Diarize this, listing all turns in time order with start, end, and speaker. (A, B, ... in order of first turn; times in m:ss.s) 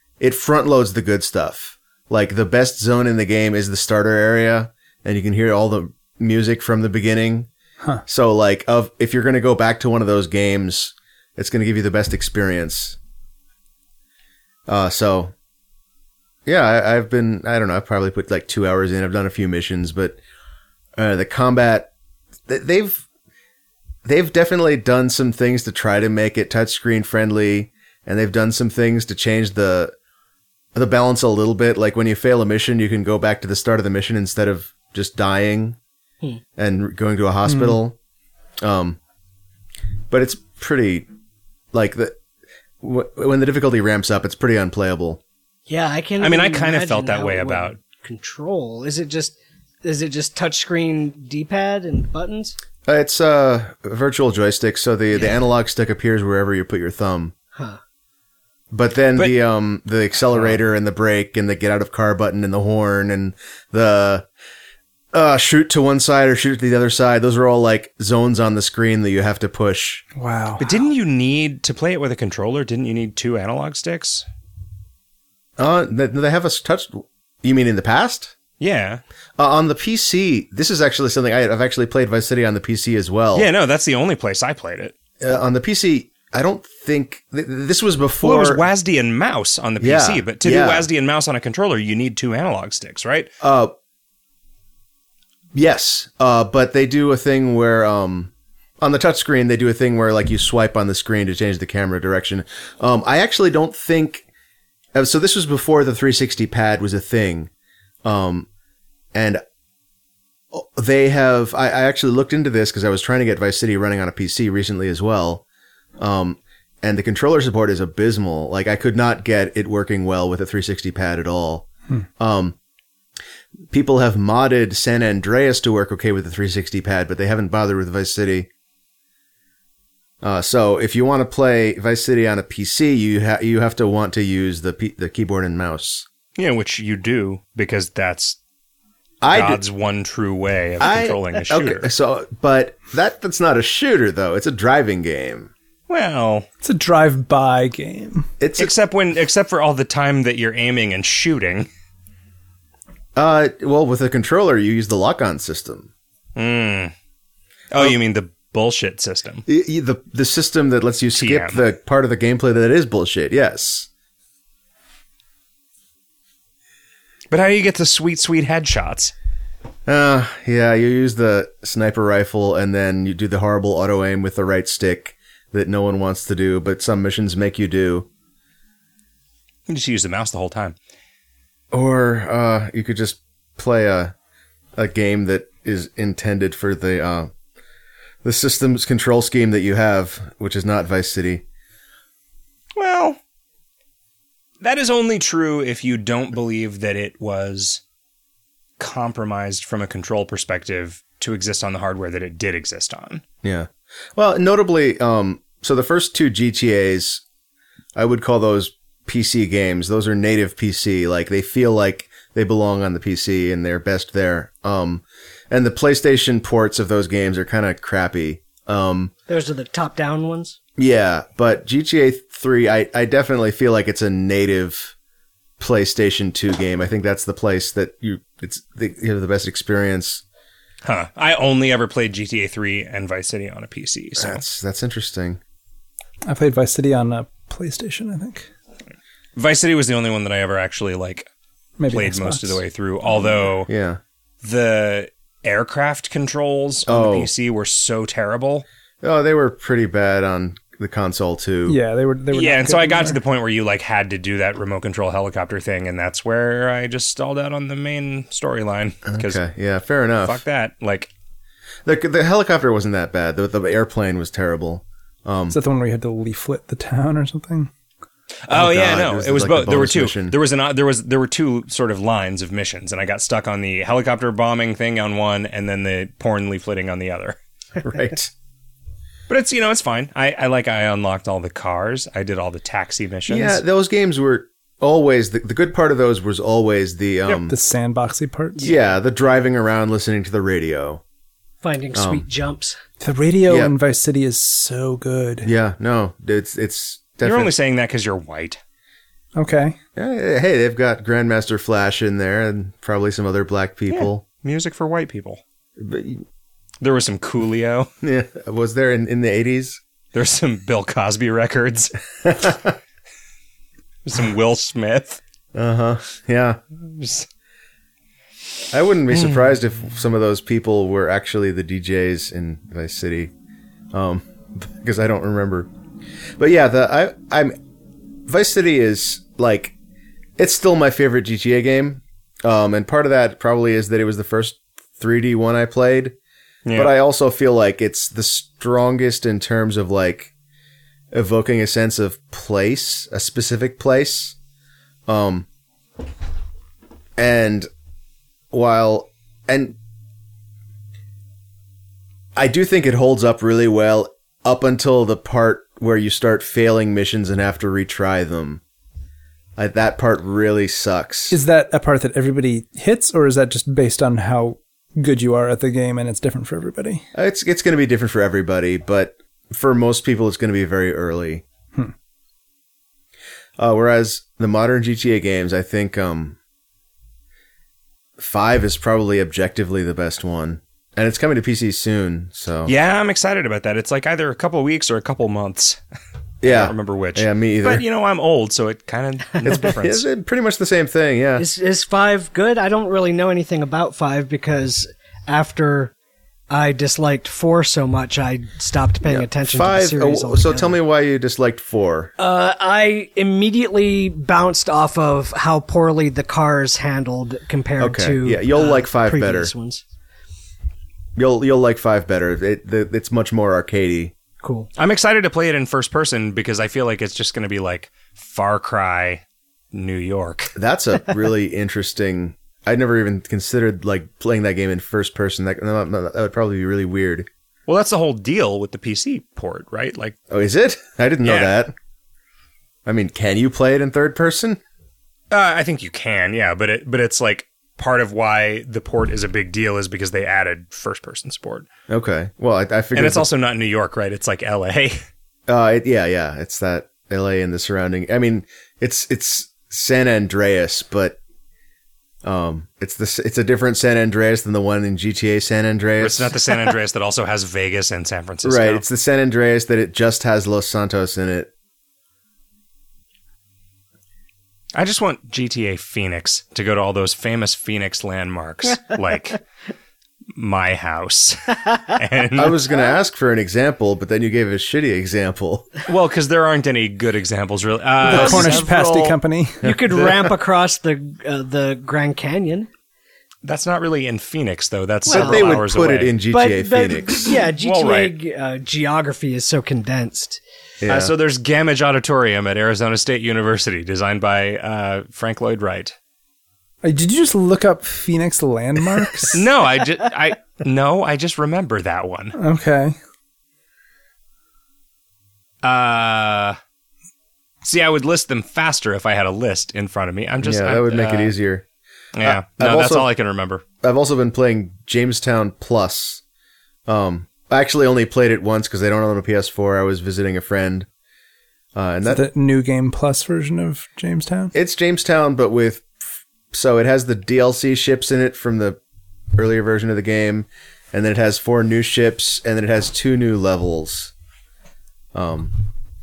0:00.2-0:07.5 A
0:08.1-0:13.0 A
0:14.7-0:15.3 A
0:16.4-0:20.2 A
0:21.0-0:21.9 A
0:22.5-0:23.0 A
0:24.0-0:29.9 A
0:30.7-0:35.8 A
0:36.6-0:38.0 A
0:37.4-0:37.8 B
0:38.6-0:39.0 A
0:40.1-0:41.1 A
0:41.7-0:42.2 A
0:42.8-0:45.2 A
0:45.7-0:52.5 C
0:46.2-0:47.8 D
0:52.8-0:57.3 A
0:58.7-1:04.3 A
1:05.1-1:10.0 A
1:10.2-1:10.8 B
1:10.6-1:14.2 D
1:15.6-1:18.3 A
1:18.6-1:19.0 D
1:19.4-1:23.5 A
1:23.3-1:24.9 D
1:25.2-1:28.6 A
1:28.2-1:33.3 D
1:29.8-1:30.9 A
1:33.4-1:33.7 A
1:35.5-1:44.2 A
1:44.9-1:47.5 A
1:48.0-1:48.5 A
1:49.1-1:49.4 A
1:50.5-1:55.4 A
1:56.0-2:01.7 A
2:02.2-2:02.5 A
2:03.7-2:08.5 A
2:10.2-2:16.0 A
2:16.4-2:18.4 D
2:19.2-2:19.6 A
2:19.2-2:21.9 D
2:20.8-2:25.5 A
2:25.9-2:26.5 D
2:26.6-2:28.3 B
2:28.4-2:28.7 A
2:28.6-2:31.7 D
2:33.1-2:35.9 A
2:36.4-2:36.9 D
2:37.7-2:39.4 D
2:39.5-2:43.9 A
2:41.1-2:41.6 D
2:47.3-2:49.1 D
2:49.8-2:58.1 A
2:59.7-3:00.8 D
3:01.7-3:04.1 A
3:04.8-3:07.3 A
3:08.2-3:11.4 A
3:12.8-3:13.2 D
3:14.6-3:17.8 D
3:18.8-3:23.2 D
3:23.4-3:27.2 A
3:27.9-3:39.1 A
3:39.3-3:40.6 C
3:40.8-3:44.9 A
3:45.6-3:50.2 A
3:50.8-3:54.4 D
3:54.2-3:55.4 A
3:56.2-3:58.5 B
3:59.4-4:01.3 D
4:01.8-4:02.6 B
4:01.9-4:03.7 D
4:03.7-4:04.0 A
4:04.4-4:08.6 D
4:06.9-4:07.3 A
4:09.0-4:11.8 A
4:11.7-4:13.2 B
4:12.3-4:19.4 D
4:19.0-4:20.4 A
4:20.2-4:21.1 D
4:21.8-4:25.6 A
4:25.5-4:27.7 B
4:28.4-4:37.4 D
4:28.5-4:30.4 A
4:37.8-4:38.3 A
4:39.3-4:43.6 D
4:43.3-4:47.5 A
4:47.3-4:48.7 B
4:48.6-4:51.0 A
4:51.6-4:52.8 C
4:51.9-4:52.2 A
4:53.0-4:55.5 B
4:53.5-4:53.7 A
4:55.4-4:57.5 A
4:57.2-4:58.6 D
4:59.3-4:59.8 B
5:00.0-5:04.2 A
5:03.9-5:05.4 D
5:05.8-5:06.2 A
5:06.8-5:07.9 D
5:08.0-5:09.8 A
5:10.1-5:12.5 D
5:12.2-5:12.7 A
5:14.0-5:15.2 D
5:15.5-5:16.6 A
5:16.8-5:17.3 D
5:18.7-5:23.3 A
5:23.9-5:25.7 A
5:26.4-5:27.5 A
5:28.2-5:29.7 A
5:30.4-5:36.1 A
5:36.6-5:36.9 D
5:36.7-5:40.3 A
5:41.1-5:44.4 A
5:45.1-5:45.5 A
5:47.2-5:47.7 A
5:48.5-5:49.8 A
5:52.4-5:58.6 A
5:59.6-6:01.4 A
6:01.3-6:07.0 B
6:07.1-6:11.4 A
6:13.6-6:16.4 A
6:18.2-6:22.7 A
6:22.6-6:25.8 D
6:26.4-6:27.8 A
6:26.4-6:30.0 D
6:29.4-6:31.4 A
6:31.4-6:35.9 C
6:36.5-6:40.8 C
6:39.0-6:42.1 A
6:42.2-6:49.8 C
6:47.8-6:49.5 A
6:51.2-6:54.1 A
6:54.4-6:54.7 C
6:54.8-7:00.5 D
7:00.5-7:07.3 A
7:07.7-7:10.1 D
7:10.3-7:11.7 A
7:11.2-7:11.5 D
7:12.8-7:14.6 A
7:15.3-7:21.7 D
7:21.9-7:23.3 A
7:22.9-7:25.0 D
7:25.5-7:31.2 A
7:32.2-7:36.4 A
7:36.0-7:38.8 D
7:38.4-7:41.5 A
7:44.7-7:49.4 D
7:50.3-7:52.6 D
7:52.3-7:55.7 A
7:55.9-7:59.2 D
7:58.0-7:59.7 B
7:58.1-7:58.7 A
7:58.2-7:58.6 C
7:59.6-8:00.3 A
7:59.6-8:02.7 C
8:03.4-8:06.1 D
8:05.1-8:05.6 C
8:05.1-8:07.3 A
8:06.3-8:10.4 C
8:07.6-8:08.1 D
8:10.8-8:11.1 A
8:10.9-8:15.9 D
8:16.8-8:19.4 B
8:19.3-8:22.4 D
8:22.4-8:23.0 B
8:25.6-8:26.6 D
8:27.6-8:31.3 D
8:30.4-8:31.6 A
8:32.1-8:33.6 D
8:32.2-8:33.1 A
8:33.8-8:36.2 A
8:36.9-8:40.9 A
8:41.7-8:42.3 A
8:42.1-8:44.5 B
8:44.5-8:45.9 A
8:46.5-8:48.8 A
8:49.3-8:54.1 A
8:55.1-8:55.6 A